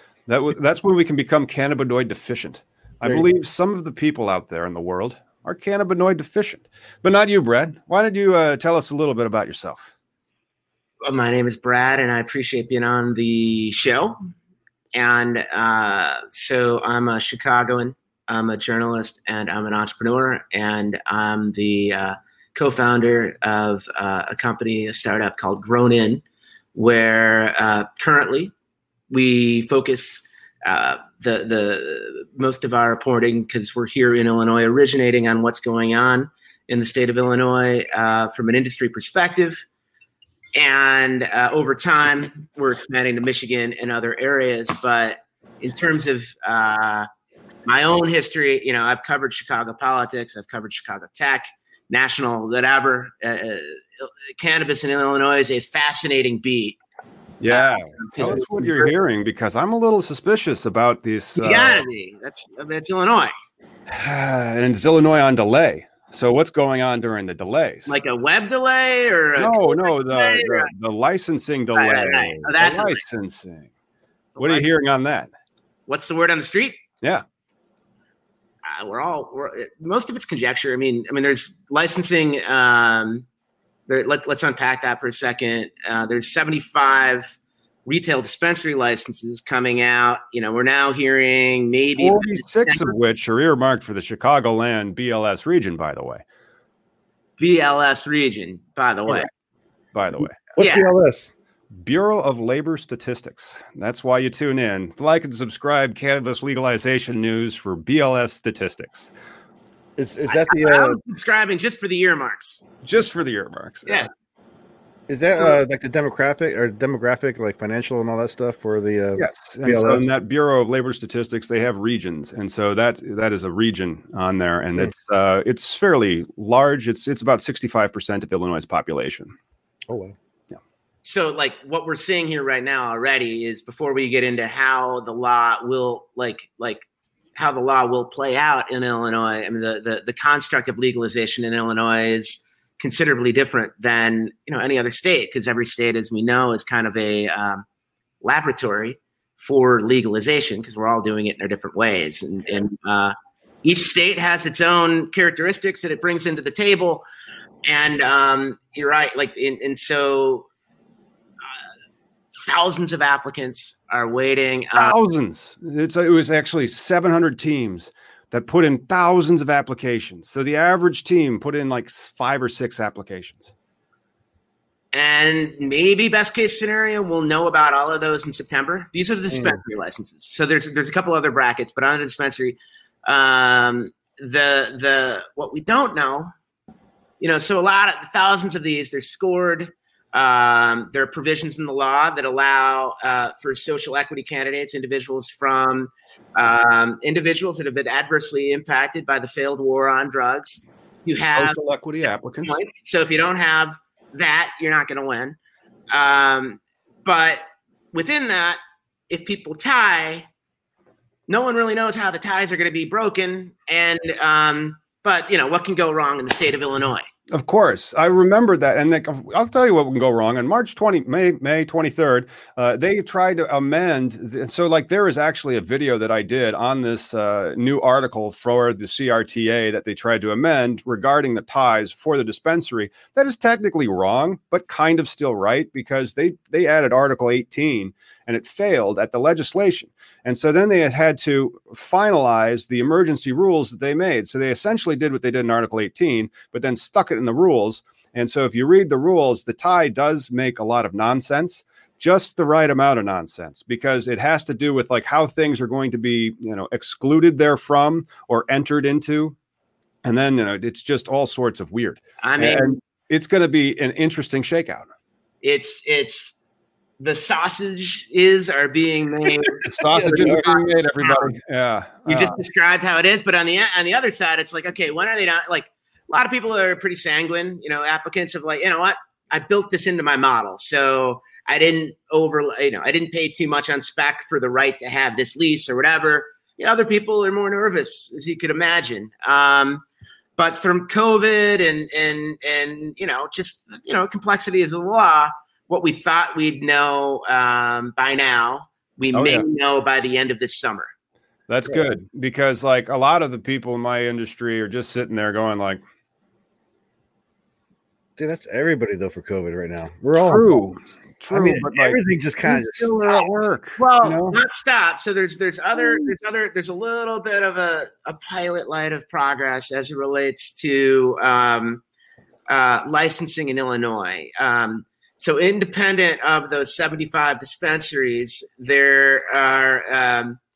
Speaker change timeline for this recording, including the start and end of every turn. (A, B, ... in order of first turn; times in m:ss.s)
0:00.3-0:09.9 A
0:11.0-0:14.2 B
0:14.9-0:26.2 B
0:26.7-0:28.5 B
0:29.1-0:39.6 B
0:40.5-0:47.1 B
0:47.6-0:56.8 B
0:57.4-1:01.8 A
0:57.5-0:58.9 B
1:01.4-1:03.3 B
1:03.9-1:08.0 A
1:07.9-1:10.7 B
1:09.4-1:13.7 A
1:11.7-1:13.0 B
1:14.4-1:14.7 B
1:14.4-1:15.3 A
1:15.9-1:16.8 B
1:18.6-1:23.2 B
1:23.9-1:32.9 B
1:32.0-1:36.2 A
1:37.4-1:39.3 B
1:39.9-1:40.5 A
1:40.6-1:41.3 C
1:40.6-1:40.9 B
1:41.8-1:49.1 A
1:50.0-1:51.0 C
1:50.3-1:52.6 B
1:52.8-1:54.1 A
1:55.1-2:00.0 C
1:59.2-2:09.3 A
2:09.9-2:10.2 C
2:11.0-2:27.6 B
2:28.2-2:37.0 B
2:37.6-2:40.5 B
2:42.4-2:45.0 B
2:44.7-2:53.5 A
2:54.9-3:06.3 B
2:59.3-2:59.6 C
3:07.2-3:21.6 B
3:21.3-3:22.6 A
3:22.4-3:25.4 B
3:25.9-3:27.4 B
3:27.9-3:28.6 B
3:29.1-3:30.2 B
3:31.3-3:37.1 B
3:37.3-4:19.3 A
4:20.0-4:24.9 A
4:22.2-4:22.8 B
4:25.4-4:26.4 B
4:27.0-4:31.3 B
4:29.6-4:32.4 A
4:29.9-4:30.4 C
4:32.1-4:49.8 B
4:50.4-5:00.9 B
4:59.1-4:59.4 A
5:01.5-5:05.8 A
5:08.2-5:10.5 C
5:10.2-5:14.4 A
5:11.3-5:13.3 C
5:13.8-5:21.8 B
5:22.5-5:30.4 B